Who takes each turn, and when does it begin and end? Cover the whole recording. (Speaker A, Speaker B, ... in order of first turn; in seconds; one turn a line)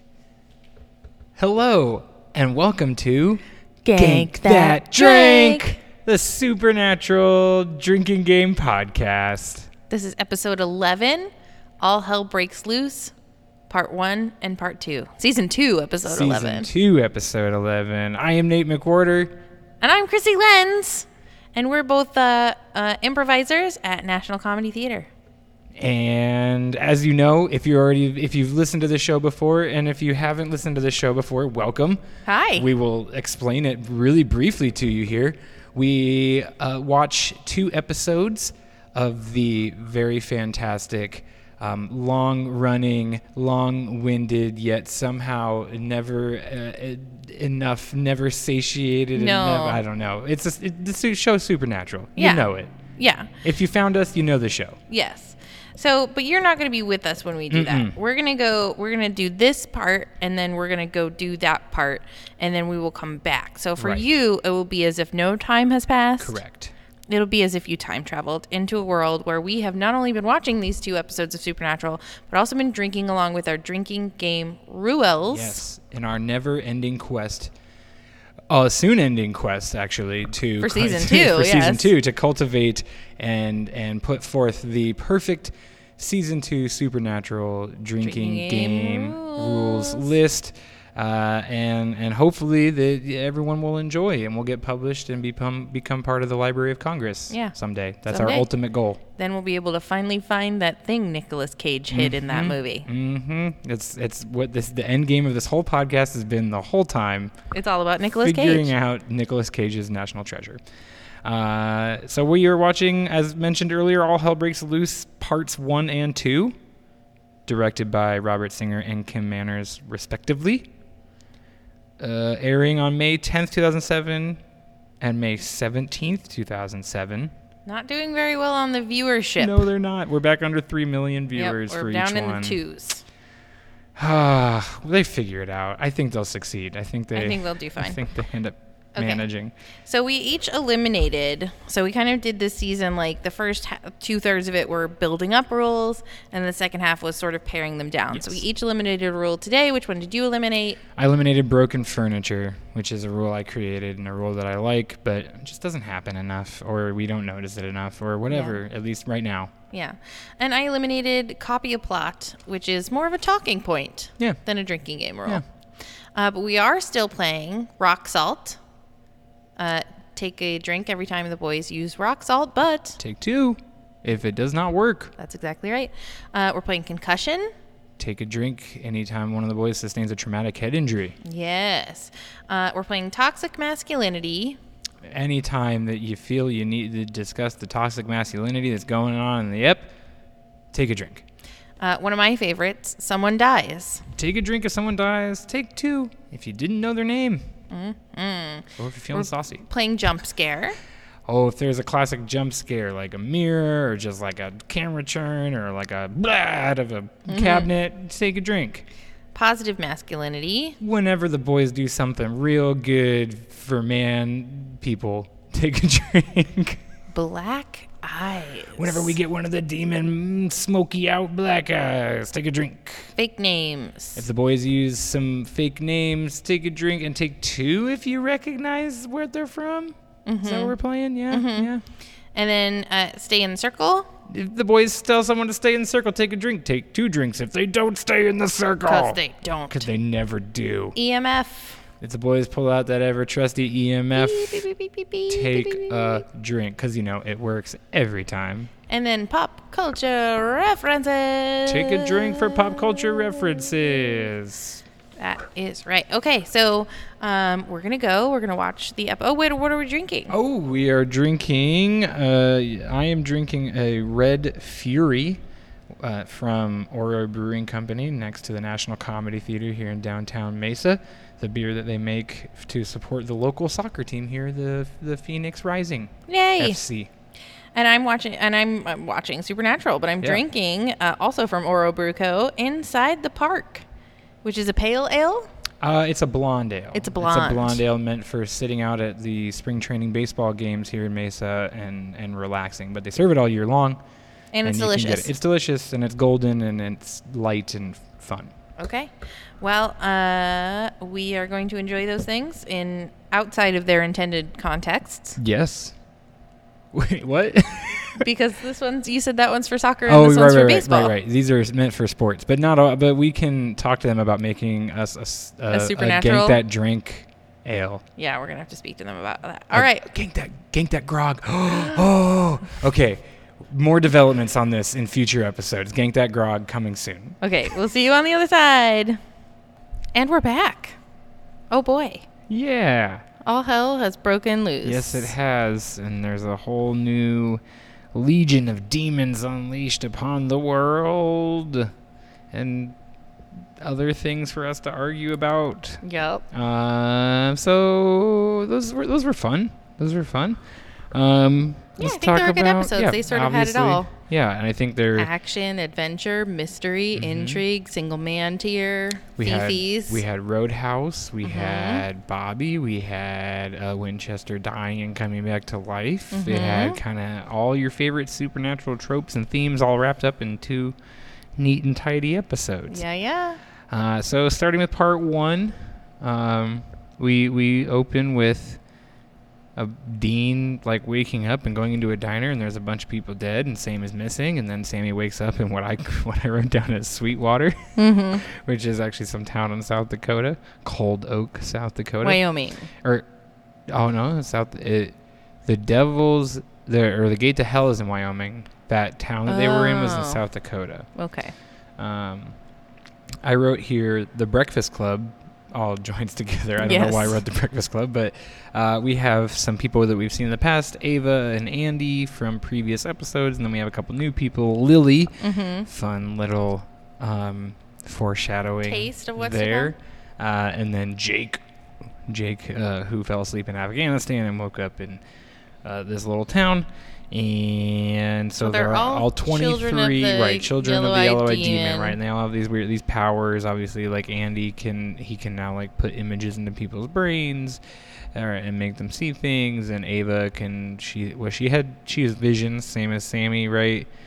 Speaker A: 1.4-3.4
Speaker B: 3.9-5.8
Speaker A: 4.0-9.7
Speaker B: 9.9-13.1
Speaker B: 13.7-16.7
Speaker A: 16.1-19.4
Speaker B: 19.8-25.1
Speaker A: 25.8-32.0
Speaker B: 32.3-32.7
Speaker A: 32.5-52.7
Speaker B: 49.1-49.8
Speaker B: 52.2-53.4
Speaker A: 53.4-54.8
Speaker B: 54.9-66.4
Speaker A: 57.5-57.9
Speaker A: 63.8-64.1
Speaker A: 66.2-66.7
Speaker B: 67.1-75.6
Speaker A: 75.3-77.5
Speaker A: 78.5-99.0
Speaker B: 80.6-81.9
Speaker B: 88.0-90.1
Speaker B: 97.3-97.5
Speaker B: 98.1-98.5
Speaker B: 99.2-102.9
Speaker A: 101.9-107.3
Speaker B: 107.5-108.7
Speaker A: 108.2-110.6
Speaker A: 111.2-116.5
Speaker A: 117.5-120.7
Speaker A: 122.0-124.4
Speaker A: 125.0-127.3
Speaker B: 127.7-129.7
Speaker A: 129.4-132.6
Speaker B: 131.4-133.0
Speaker A: 134.0-139.5
Speaker B: 137.2-138.0
Speaker B: 139.0-139.2
Speaker B: 139.9-150.8
Speaker A: 148.1-148.4
Speaker A: 151.0-159.5
Speaker B: 158.3-158.6
Speaker B: 159.7-165.4
Speaker B: 166.2-168.6
Speaker B: 169.6-173.0
Speaker A: 173.0-175.2
Speaker B: 175.2-177.5
Speaker A: 178.0-181.2
Speaker B: 181.2-184.6
Speaker A: 185.1-189.9
Speaker A: 190.7-191.2
Speaker B: 191.8-194.0
Speaker A: 194.1-197.4
Speaker B: 197.7-200.8
Speaker A: 198.8-199.6
Speaker A: 201.3-208.9
Speaker B: 207.3-207.7
Speaker B: 209.3-210.8
Speaker A: 210.8-216.8
Speaker B: 217.1-219.2
Speaker A: 218.8-223.1
Speaker B: 223.2-224.3
Speaker A: 224.2-231.8
Speaker B: 230.3-230.8
Speaker B: 231.3-231.7
Speaker B: 232.3-234.1
Speaker A: 234.3-241.0
Speaker B: 238.8-239.9
Speaker B: 240.9-241.8
Speaker A: 242.0-244.7
Speaker B: 244.2-246.2
Speaker A: 245.3-248.7
Speaker B: 248.9-254.2
Speaker A: 251.7-254.8
Speaker B: 255.2-260.3
Speaker A: 260.3-265.4
Speaker A: 266.0-277.1
Speaker B: 276.3-276.8
Speaker B: 277.8-283.9
Speaker B: 284.4-285.5
Speaker A: 285.8-294.0
Speaker B: 286.9-287.8
Speaker B: 294.5-295.3
Speaker A: 294.6-298.5
Speaker B: 298.8-305.4
Speaker A: 305.4-305.9
Speaker A: 306.9-308.2
Speaker B: 308.2-311.1
Speaker A: 310.1-318.0
Speaker B: 315.7-316.6
Speaker B: 318.2-320.1
Speaker A: 319.7-327.4
Speaker B: 327.4-329.2
Speaker B: 330.1-331.0
Speaker B: 331.7-332.2
Speaker A: 332.5-333.2
Speaker B: 333.4-335.3
Speaker A: 334.8-337.6
Speaker A: 338.1-341.9
Speaker A: 342.5-342.9
Speaker A: 343.8-350.6
Speaker B: 346.0-346.4
Speaker A: 351.1-355.3
Speaker B: 352.0-354.1
Speaker B: 355.2-360.2
Speaker A: 357.1-357.6
Speaker A: 359.4-371.0
Speaker B: 361.4-362.0
Speaker B: 366.3-367.0
Speaker A: 371.6-373.0
Speaker B: 372.9-373.6
Speaker A: 373.9-378.8
Speaker A: 379.8-392.4
Speaker B: 388.0-388.4
Speaker B: 392.2-392.9
Speaker A: 393.9-401.1
Speaker B: 399.5-400.4
Speaker B: 401.2-401.5
Speaker A: 402.0-402.6
Speaker A: 403.4-421.6
Speaker B: 406.8-407.4
Speaker B: 415.4-415.9
Speaker B: 418.8-419.9
Speaker A: 422.2-425.2
Speaker A: 425.8-437.8
Speaker B: 428.6-432.2
Speaker A: 438.3-444.1